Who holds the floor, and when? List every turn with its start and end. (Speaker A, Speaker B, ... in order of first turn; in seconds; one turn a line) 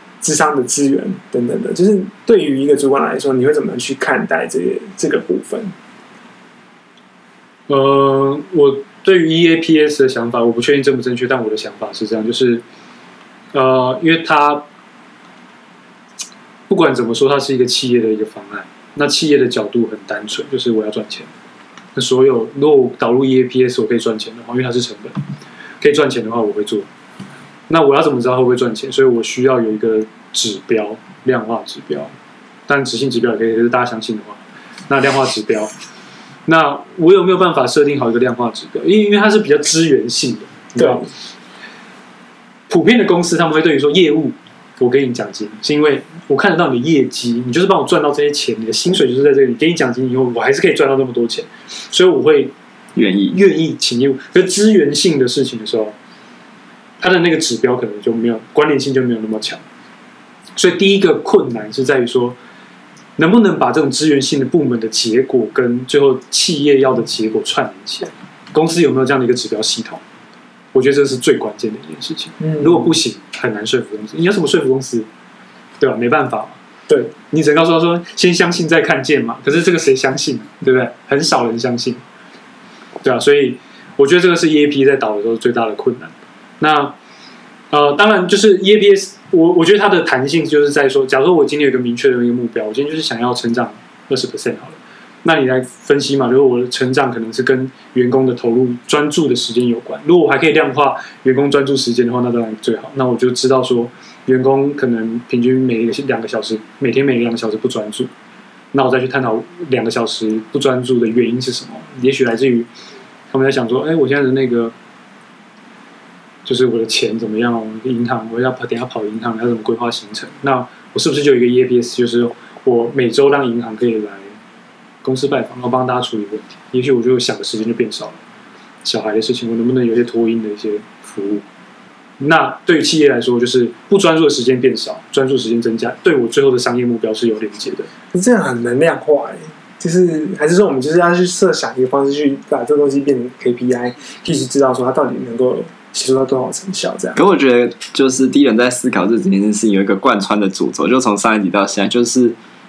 Speaker A: 0.2-5.7
Speaker B: 7.7-12.6
Speaker B: 13.5-14.6
Speaker B: 16.7-21.3
Speaker B: 21.9-25.2
Speaker B: 25.8-26.9
Speaker B: 27.7-32.1
Speaker B: 32.7-35.7
Speaker B: 36.5-41.0
Speaker A: 40.8-41.1
Speaker B: 42.7-52.5
Speaker C: 52.9-53.4
Speaker B: 53.3-55.9
Speaker B: 57.0-59.6
Speaker B: 60.6-62.4
Speaker B: 63.2-70.0
Speaker B: 70.7-75.1
Speaker A: 72.4-73.0
Speaker B: 75.8-76.6
Speaker B: 77.1-82.0
Speaker B: 83.0-86.9
Speaker B: 87.7-108.1
Speaker B: 108.7-112.7
Speaker B: 113.3-114.7
Speaker B: 116.5-124.4
Speaker B: 125.0-128.2
Speaker B: 128.8-131.4
Speaker B: 132.2-137.9
Speaker A: 138.1-147.2
Speaker C: 147.2-152.3